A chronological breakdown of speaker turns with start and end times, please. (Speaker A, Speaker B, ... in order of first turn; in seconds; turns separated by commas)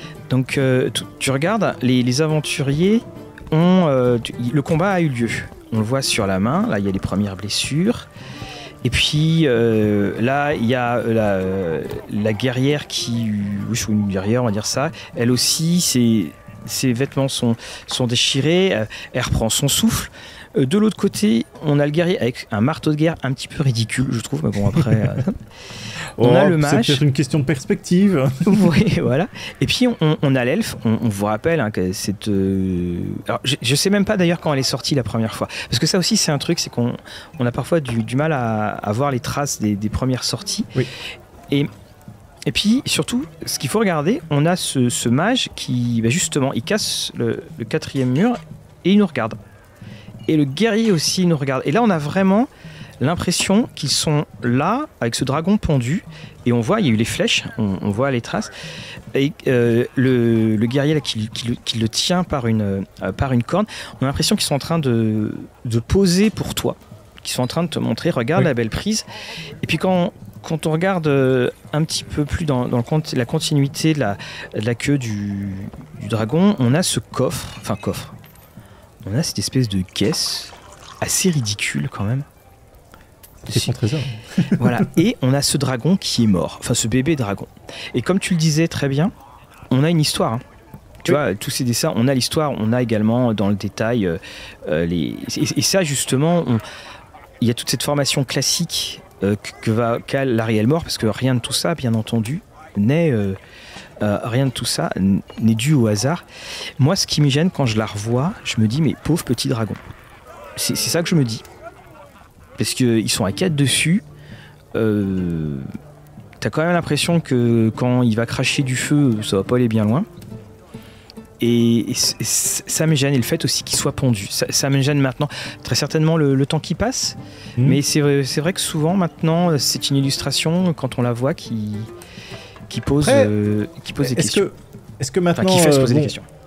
Speaker A: 0.3-8.1, Speaker A: 8.8-25.4, Speaker B: 24.7-25.1, Speaker B: 26.2-28.7, Speaker A: 26.2-27.0, Speaker A: 28.4-40.8, Speaker A: 42.5-49.4, Speaker A: 50.3-52.5, Speaker A: 53.0-58.5, Speaker A: 59.1-69.1, Speaker A: 69.6-78.1, Speaker A: 79.0-82.2, Speaker B: 83.4-85.0, Speaker A: 84.5-89.1, Speaker A: 89.7-90.4, Speaker A: 91.0-96.6, Speaker A: 97.4-103.4, Speaker A: 104.0-106.2, Speaker A: 106.8-109.8, Speaker A: 110.5-111.4, Speaker A: 112.6-114.0, Speaker A: 114.7-115.7, Speaker A: 116.4-120.1, Speaker A: 121.4-131.9, Speaker A: 132.7-134.4, Speaker B: 133.0-133.3, Speaker B: 134.0-136.1, Speaker A: 135.4-136.2